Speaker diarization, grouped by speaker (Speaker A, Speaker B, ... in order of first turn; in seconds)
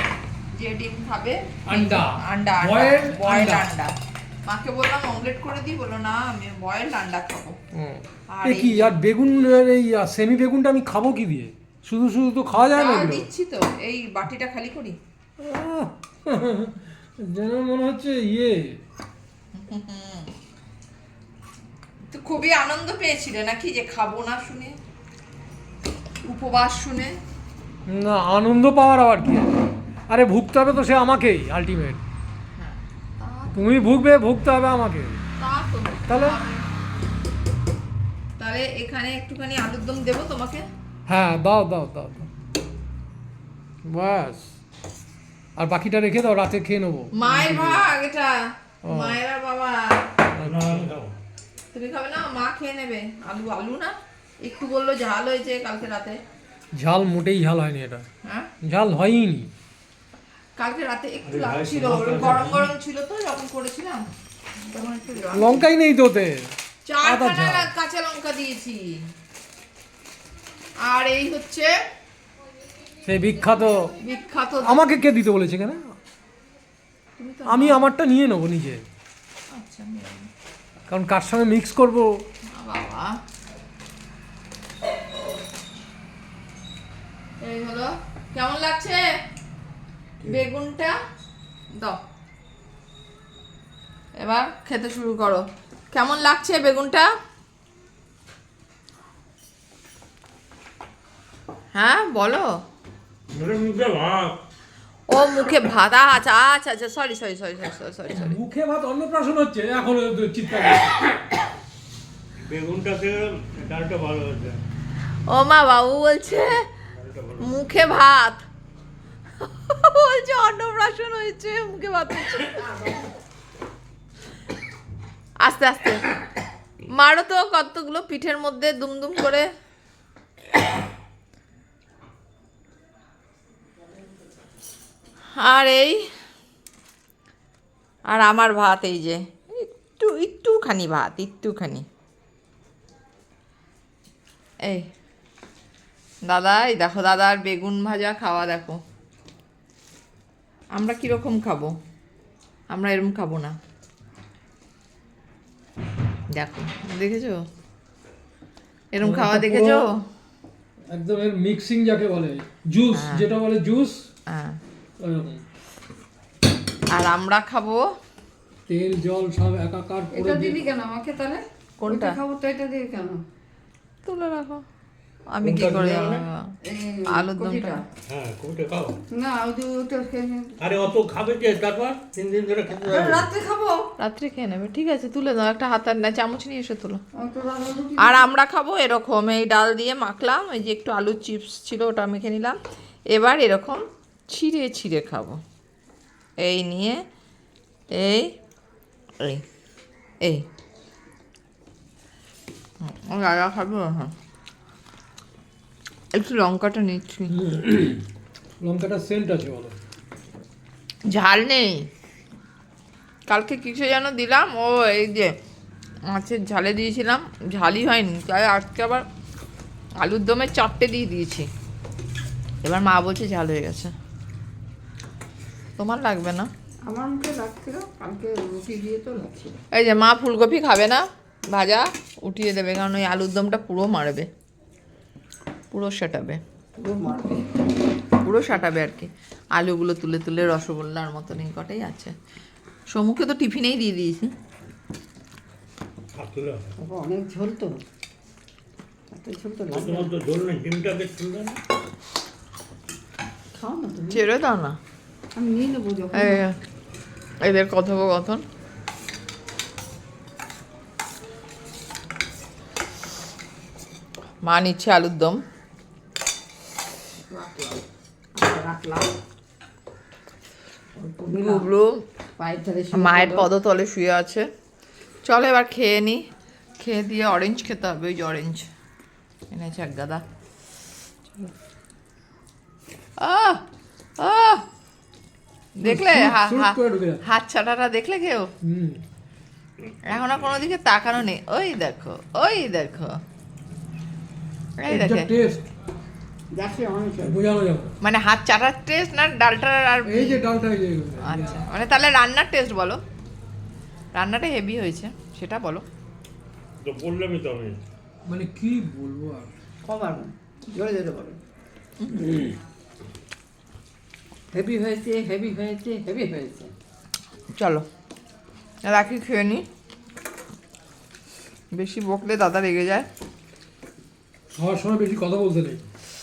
Speaker A: 0.6-3.9, 4.5-7.6, 8.3-8.9, 12.5-15.0, 19.5-20.3, 22.1-24.8, 26.2-27.2, 32.6-33.6, 35.4-36.6, 38.4-40.6, 47.1-50.1, 51.7-56.2, 60.6-64.0, 64.6-65.7, 66.8-69.0, 70.8-71.7, 74.0-74.9, 77.2-77.8, 79.5-80.3, 82.5-83.1, 87.4-89.0, 90.2-90.9, 94.2-97.1, 101.7-102.5, 105.1-108.4, 115.3-116.6, 117.4-118.4, 119.4-122.8, 125.4-126.0, 126.9-129.5, 135.3-136.1, 138.1-141.8, 146.3-148.8, 150.7-151.7, 152.7-153.5, 156.3-157.4, 158.9-160.0, 162.9-163.3, 164.3-164.6, 166.9-167.8, 171.8-172.2, 174.0-174.6, 175.3-176.4, 177.1-177.8, 184.0-187.0, 188.0-192.6, 193.1-195.4, 196.4-197.0, 197.9-198.3, 202.8-204.1, 206.1-207.3, 211.1-211.9, 213.3-215.3, 216.1-219.1, 220.0-221.5, 222.6-223.9, 225.8-226.5, 229.7-234.3, 235.7-236.4, 238.2-242.1, 242.9-244.3, 254.1-254.8, 256.1-256.5, 257.4-258.4, 264.4-265.4, 271.3-272.0, 272.9-274.4, 275.2-276.2, 276.8-278.6, 279.5-280.2, 283.2-283.6, 284.2-284.6, 285.8-288.5, 290.1-293.2, 294.8-295.3, 298.0-300.4, 301.2-303.0, 304.1-305.8, 317.6-317.8, 318.8-319.6, 321.7-323.1
Speaker B: 1.7-3.6, 7.7-13.2, 15.4-18.8, 27.9-29.6, 30.1-32.0, 33.5-35.2, 36.1-36.4, 41.1-42.3, 43.9-44.5, 45.6-47.9, 48.9-49.2, 50.3-50.9, 56.7-58.0, 58.6-59.5, 65.3-67.7, 73.0-73.9, 74.6-75.9, 77.5-78.8, 80.9-82.2, 108.1-111.0, 159.0-159.9, 160.9-164.0, 165.0-165.4, 168.7-170.7, 207.3-208.0, 208.6-209.7, 285.8-287.2, 288.6-289.0, 294.9-295.7, 297.2-297.9, 300.1-301.6, 308.2-309.5, 312.2-312.5, 324.5-325.8
Speaker C: 50.4-51.1, 61.2-62.7, 103.3-104.4, 112.4-114.6, 116.9-117.5, 175.4-176.2, 178.1-179.0, 180.6-183.3, 246.2-246.7, 249.7-251.6, 306.8-307.8
Speaker D: 170.1-173.2, 176.6-177.8, 179.1-180.5, 182.9-183.9, 187.2-188.2, 226.8-229.5, 236.8-237.5, 246.8-247.8, 249.1-250.1, 253.5-254.2, 255.3-256.4, 267.3-267.8, 268.3-269.1, 270.9-271.7, 272.4-273.5, 296.5-297.4, 309.8-311.4, 314.5-316.7